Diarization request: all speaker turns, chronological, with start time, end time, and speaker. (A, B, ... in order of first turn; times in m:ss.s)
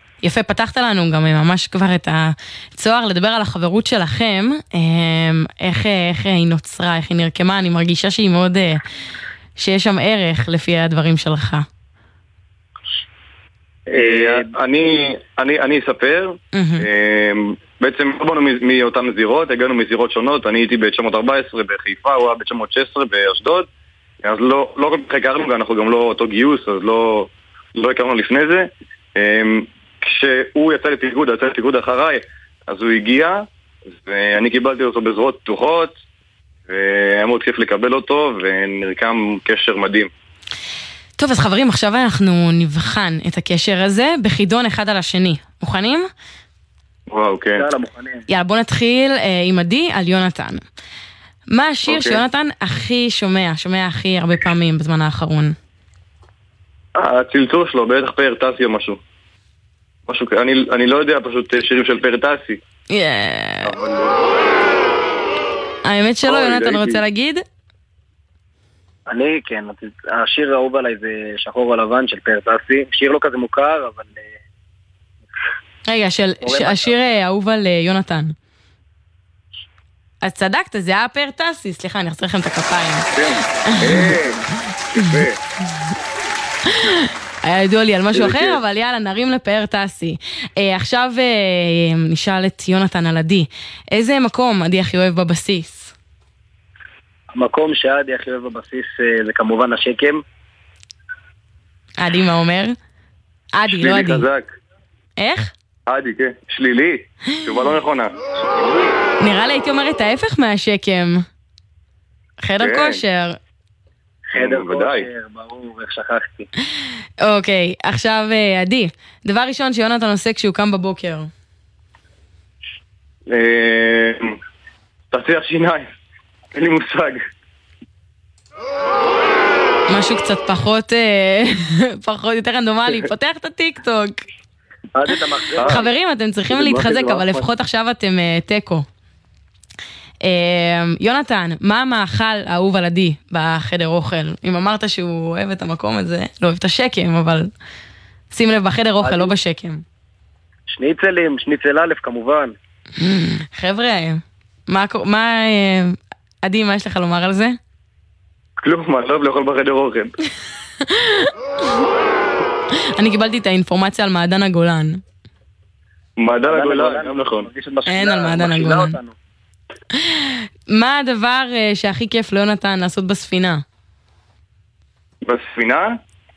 0:00.2-0:08.8 A
0:09.6-0:11.6 A
0:13.9-0:23.7 B
0:14.0-0:14.5 C
0:16.5-0:16.9 A
0:24.2-0:33.4 B
0:34.0-0:36.0 B
0:36.7-0:40.1 B
0:41.2-0:46.1 A
0:47.1-0:47.6 B
0:47.6-0:48.2 C
0:48.3-0:50.6 A
0:51.5-0:55.6 A
0:51.9-0:52.2 B
0:57.0-0:59.0 B
1:00.1-1:02.6 B
1:02.9-1:03.8 A
1:03.6-1:04.2 B
1:05.8-1:07.4 A
1:06.2-1:07.0 B
1:09.1-1:14.3 C
1:15.9-1:18.3 A
1:16.4-1:16.9 C
1:20.2-1:24.3 A
1:23.2-1:24.4 B
1:24.9-1:25.3 A
1:24.9-1:25.4 B
1:26.7-1:35.9 A
1:28.1-1:28.6 B
1:37.3-1:40.2 C
1:42.0-1:42.8 A
1:43.5-1:44.3 A
1:43.7-1:44.5 B
1:45.2-1:45.5 A
1:45.9-1:48.9 B
1:49.2-1:51.3 A
1:52.4-1:53.4 A
1:52.6-1:53.0 B
1:54.3-1:56.5 C
1:54.3-1:55.0 B
1:57.2-2:01.3 A
2:03.3-2:04.4 B
2:05.1-2:05.9 B
2:06.5-2:07.2 B
2:09.9-2:14.2 A
2:14.9-2:15.9 C
2:15.6-2:18.8 A
2:16.5-2:17.4 C
2:20.2-2:27.5 A
2:28.3-2:29.8 A
2:29.0-2:29.3 C
2:30.7-2:32.5 C
2:33.0-2:37.6 A
2:38.6-2:40.1 B
2:40.9-2:41.3 A
2:43.0-2:45.0 A
2:46.2-2:47.5 B
2:46.4-2:49.1 C
2:47.9-2:49.0 A
2:50.0-2:53.6 A
2:55.2-2:56.0 B